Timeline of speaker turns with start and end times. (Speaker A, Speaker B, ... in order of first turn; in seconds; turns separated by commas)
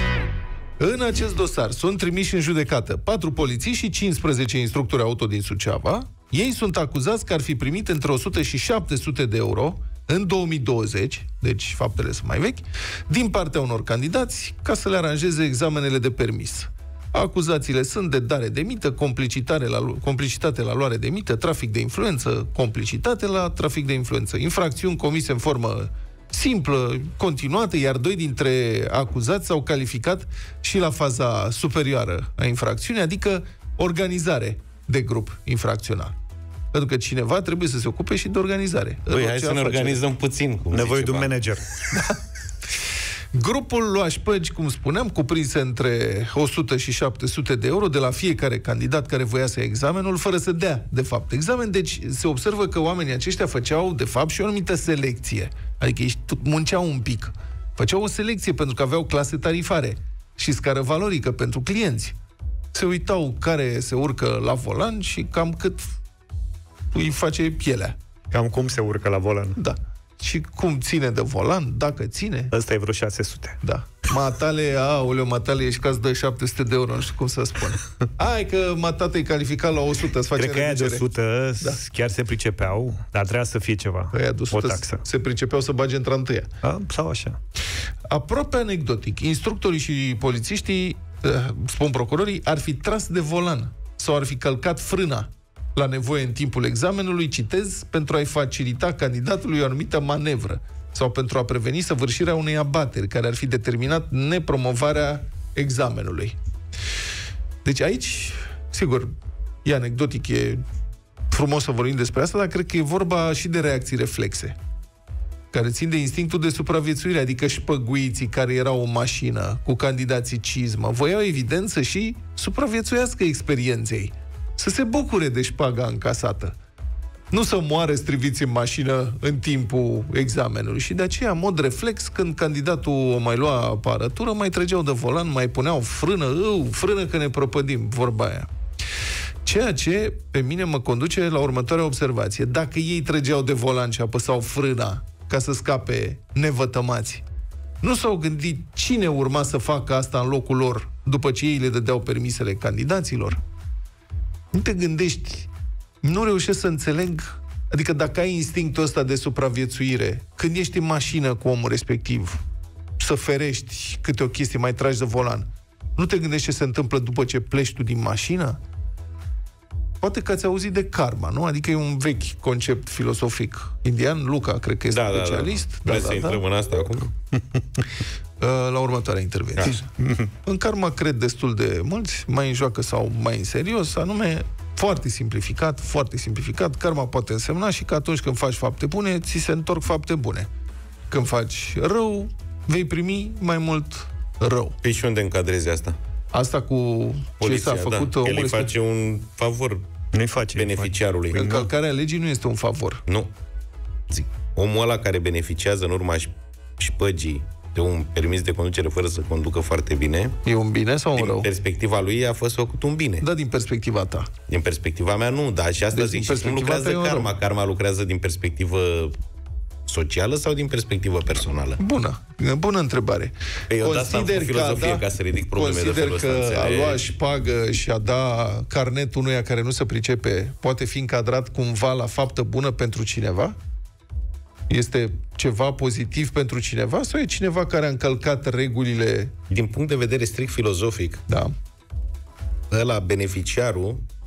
Speaker A: 0.8-36.1, Speaker A: 36.7-40.0, Speaker B: 39.1-41.3, Speaker C: 40.7-41.7, Speaker A: 41.9-42.2, Speaker A: 43.3-62.1, Speaker A: 62.7-65.9, Speaker A: 66.9-68.0, Speaker C: 68.3-69.6, Speaker A: 69.6-72.5, Speaker C: 72.5-73.6, Speaker A: 73.6-81.1, Speaker C: 80.3-85.0, Speaker A: 84.1-86.5, Speaker C: 86.6-87.4, Speaker A: 88.1-106.3, Speaker A: 107.6-109.1, Speaker A: 109.6-110.6, Speaker A: 111.3-114.5, Speaker A: 115.5-126.5, Speaker A: 127.3-138.5, Speaker A: 139.4-147.2, Speaker A: 147.8-153.4, Speaker A: 154.5-155.5, Speaker A: 156.0-162.4, Speaker A: 163.0-168.6, Speaker A: 170.0-176.4, Speaker B: 174.9-177.1, Speaker A: 178.4-179.9, Speaker A: 180.4-190.5, Speaker A: 191.1-194.8, Speaker B: 194.8-195.9, Speaker A: 196.3-198.7, Speaker B: 197.4-199.8, Speaker C: 200.1-201.7, Speaker B: 200.5-201.4, Speaker A: 201.3-203.0, Speaker B: 204.1-210.3, Speaker A: 210.4-211.5, Speaker B: 211.1-213.2, Speaker A: 213.2-214.3, Speaker B: 214.5-219.1, Speaker A: 215.9-217.3, Speaker B: 219.9-221.8, Speaker A: 221.8-233.6, Speaker B: 223.7-227.0, Speaker A: 234.7-239.3, Speaker B: 239.5-241.2, Speaker B: 242.7-244.0